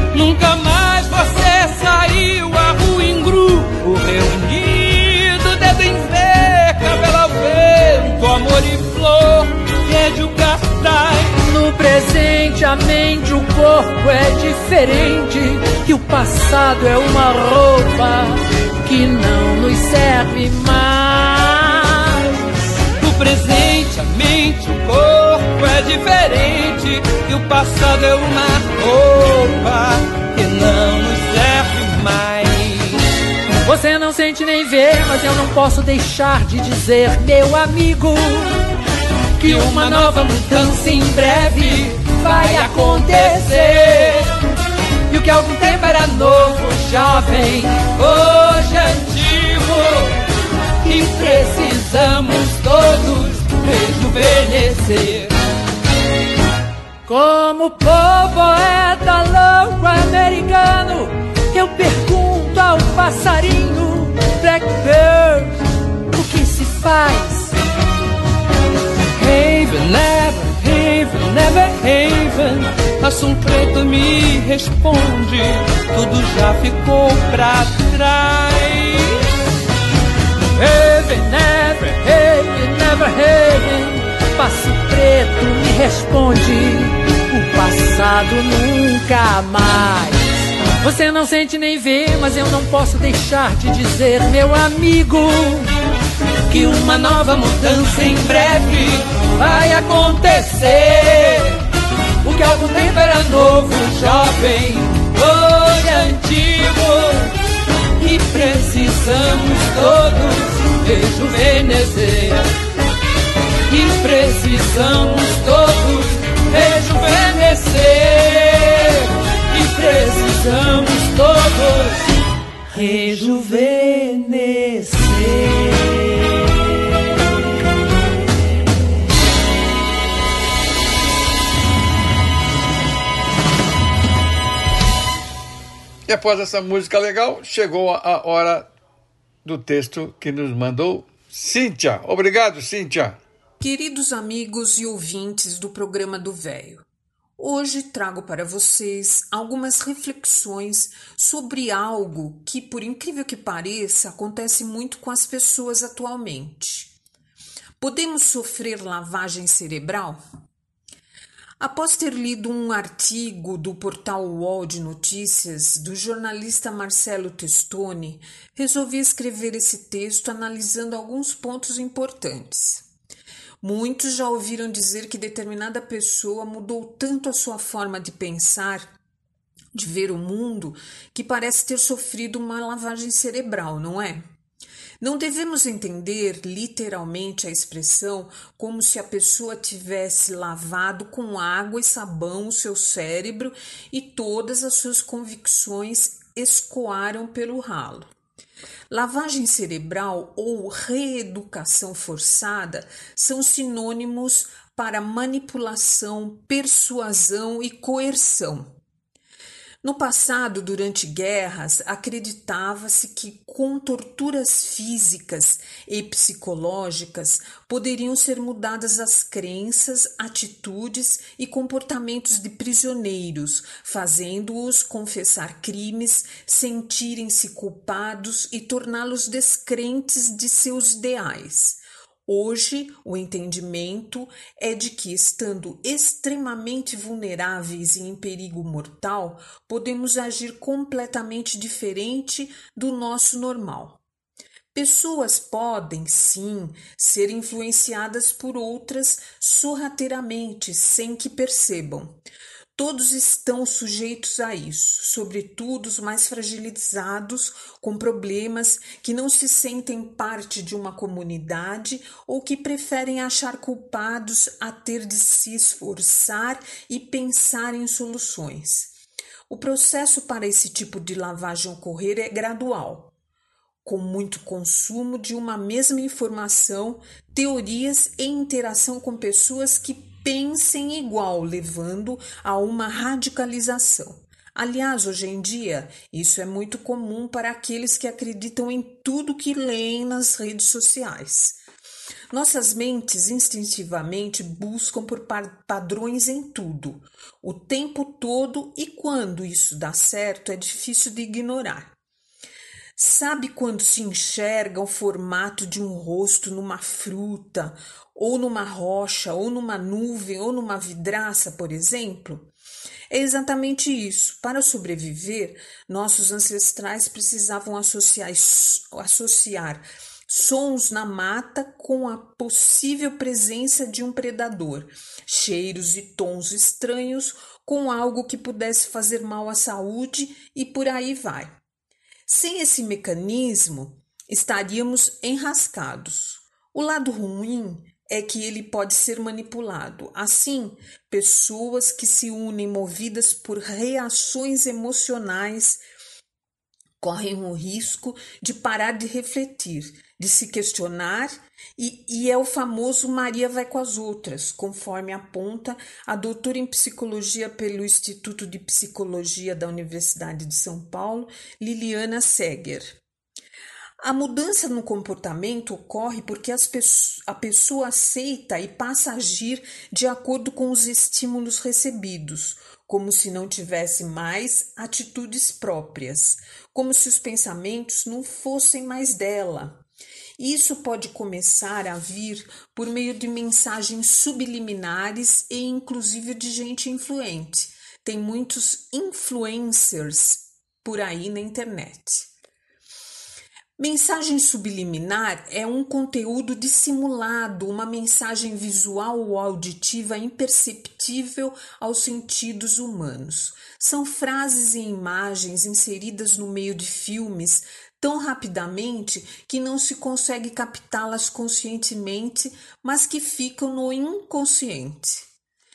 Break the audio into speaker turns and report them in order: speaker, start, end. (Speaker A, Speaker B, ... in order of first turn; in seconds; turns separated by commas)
Speaker A: 0.1-11.4, Speaker B: 11.4-22.2, Speaker A: 22.9-33.0, Speaker B: 33.6-38.6, Speaker B: 39.4-44.1, Speaker A: 39.4-44.2, Speaker A: 45.1-47.0, Speaker B: 45.1-47.9, Speaker A: 47.7-50.1, Speaker A: 50.9-55.3, Speaker B: 57.1-67.6, Speaker A: 69.1-79.2, Speaker B: 80.6-95.7, Speaker B: 96.5-97.0, Speaker A: 96.5-101.6, Speaker A: 102.2-107.3, Speaker B: 102.3-103.2, Speaker A: 108.0-112.4, Speaker A: 113.7-122.1, Speaker A: 122.7-125.9, Speaker B: 122.8-123.6, Speaker C: 136.1-138.7, Speaker C: 139.4-143.2, Speaker D: 143.6-146.8, Speaker D: 147.4-157.0, Speaker D: 157.8-160.2, Speaker D: 161.6-172.8, Speaker D: 173.6-179.0, Speaker D: 179.7-184.3, Speaker D: 185.0-198.1, Speaker D: 198.9-208.7, Speaker D: 209.8-244.0, Speaker D: 244.7-252.2, Speaker D: 252.8-269.0, Speaker D: 269.5-273.1, Speaker D: 273.9-291.6, Speaker D: 292.3-301.9, Speaker D: 303.0-312.5, Speaker D: 313.1-331.5, Speaker D: 332.3-345.8, Speaker D: 347.0-363.0, Speaker D: 364.0-379.8, Speaker D: 380.4-392.3, Speaker D: 393.8-415.3